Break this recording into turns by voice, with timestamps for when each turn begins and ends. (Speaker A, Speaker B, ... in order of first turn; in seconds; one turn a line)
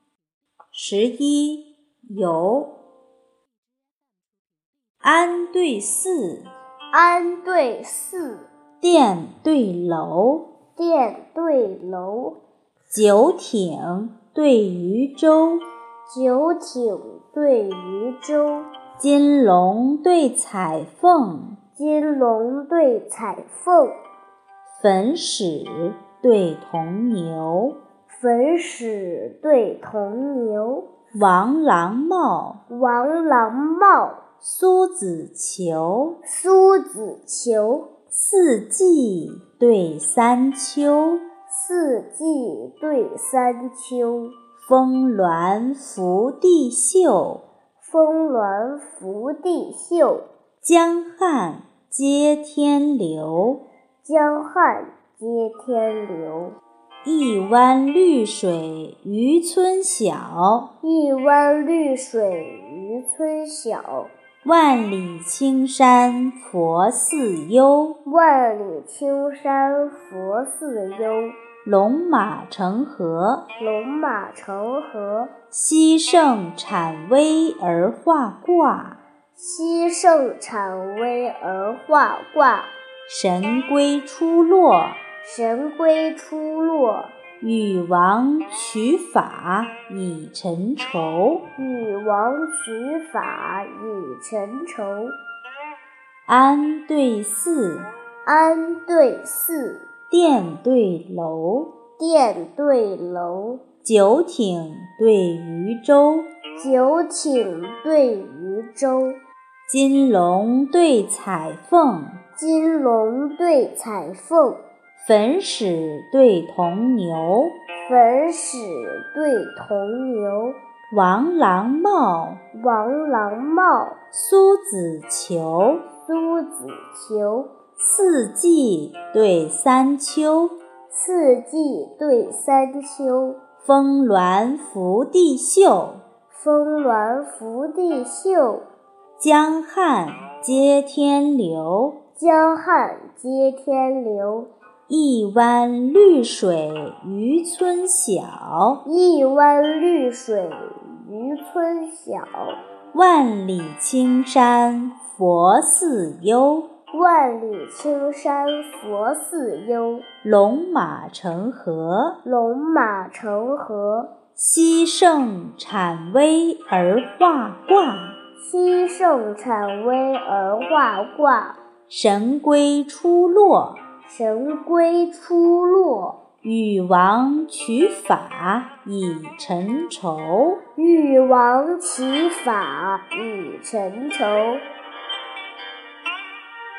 Speaker A: 0.7-2.7
Speaker A: 5.0-6.5
Speaker B: 6.9-8.5
Speaker A: 8.8-10.4
Speaker B: 10.8-12.4
Speaker A: 12.9-15.6
Speaker B: 16.1-18.7
Speaker A: 19.0-21.6
Speaker B: 21.8-24.0
Speaker A: 24.8-27.8
Speaker B: 28.1-30.9
Speaker A: 31.1-32.6
Speaker B: 32.7-34.2
Speaker A: 34.4-36.2
Speaker B: 36.2-37.9
Speaker A: 38.1-41.2
Speaker B: 41.5-44.4
Speaker A: 44.6-47.4
Speaker B: 47.8-50.3
Speaker A: 50.6-53.6
Speaker B: 54.0-56.6
Speaker A: 57.0-60.7
Speaker B: 60.8-64.1
Speaker A: 64.4-68.0
Speaker B: 68.0-71.4
Speaker A: 71.6-73.5
Speaker B: 73.6-75.3
Speaker A: 75.5-79.0
Speaker B: 79.3-82.7
Speaker A: 83.1-85.0
Speaker B: 85.2-87.1
Speaker A: 87.4-91.4
Speaker B: 91.6-95.2
Speaker A: 96.3-97.9
Speaker B: 98.2-99.9
Speaker A: 100.1-101.7
Speaker B: 102.0-103.6
Speaker A: 103.8-106.3
Speaker B: 106.6-109.2
Speaker A: 109.7-112.2
Speaker B: 112.4-114.6
Speaker A: 115.0-117.5
Speaker B: 117.8-120.6
Speaker A: 120.9-122.4
Speaker B: 122.5-124.0
Speaker A: 124.1-125.8
Speaker B: 126.0-127.5
Speaker A: 127.8-130.6
Speaker B: 130.9-133.4
Speaker A: 133.6-136.0
Speaker B: 136.3-138.7
Speaker A: 139.2-142.0
Speaker B: 142.2-144.5
Speaker A: 144.9-148.8
Speaker B: 148.8-152.6
Speaker A: 152.9-156.7
Speaker B: 156.9-160.0
Speaker A: 160.2-162.2
Speaker B: 162.2-164.1
Speaker A: 164.4-168.2
Speaker B: 168.4-171.6
Speaker A: 171.9-173.8
Speaker B: 174.1-176.2
Speaker A: 176.4-180.6
Speaker B: 180.8-184.7